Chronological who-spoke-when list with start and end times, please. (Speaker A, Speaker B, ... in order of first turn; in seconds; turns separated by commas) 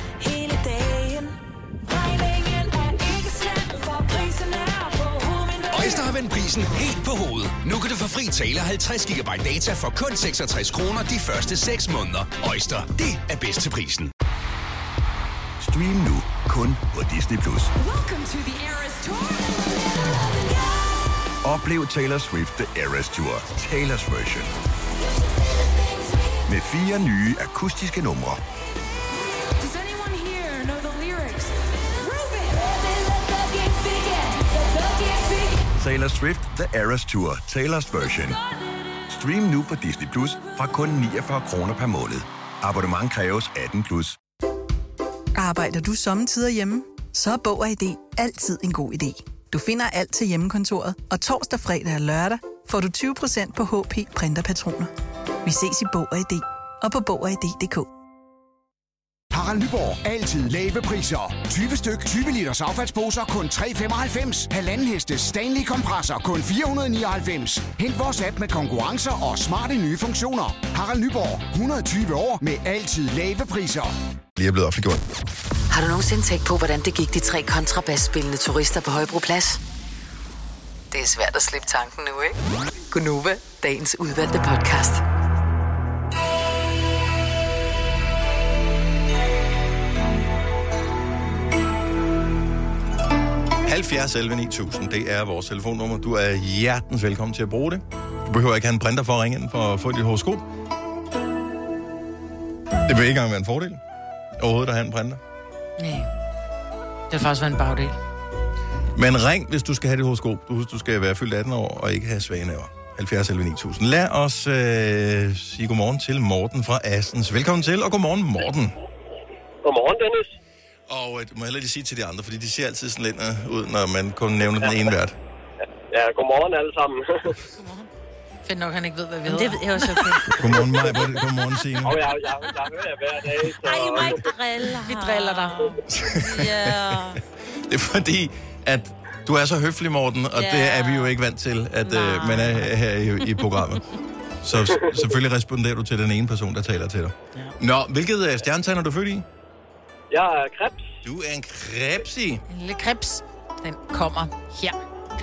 Speaker A: 0.2-6.1, Speaker B: 5.7-14.1, Speaker C: 15.6-17.7, Speaker A: 17.8-21.0, Speaker C: 21.4-24.5, Speaker C: 26.5-28.4, Speaker A: 29.5-35.7, Speaker C: 35.8-38.4, Speaker A: 38.3-38.9, Speaker C: 39.1-44.2, Speaker D: 45.4-54.9, Speaker D: 55.4-57.9, Speaker E: 59.3-74.0, Speaker F: 74.4-75.0, Speaker G: 75.7-79.6, Speaker G: 80.9-82.3, Speaker G: 82.9-85.0, Speaker F: 93.6-100.5, Speaker F: 102.8-103.8, Speaker F: 104.4-105.2, Speaker H: 105.8-106.1, Speaker H: 107.1-108.0, Speaker F: 109.0-118.8, Speaker I: 119.6-120.4, Speaker F: 120.9-125.2, Speaker I: 125.9-127.3, Speaker J: 127.6-127.9, Speaker H: 128.4-130.3, Speaker J: 129.3-131.1, Speaker F: 130.3-132.0, Speaker I: 131.8-134.3, Speaker J: 133.6-137.2, Speaker H: 134.8-135.7, Speaker F: 135.9-143.8, Speaker J: 140.3-141.1, Speaker J: 141.8-142.7, Speaker F: 144.4-149.3, Speaker I: 150.1-150.8, Speaker F: 151.0-152.4, Speaker H: 152.5-154.8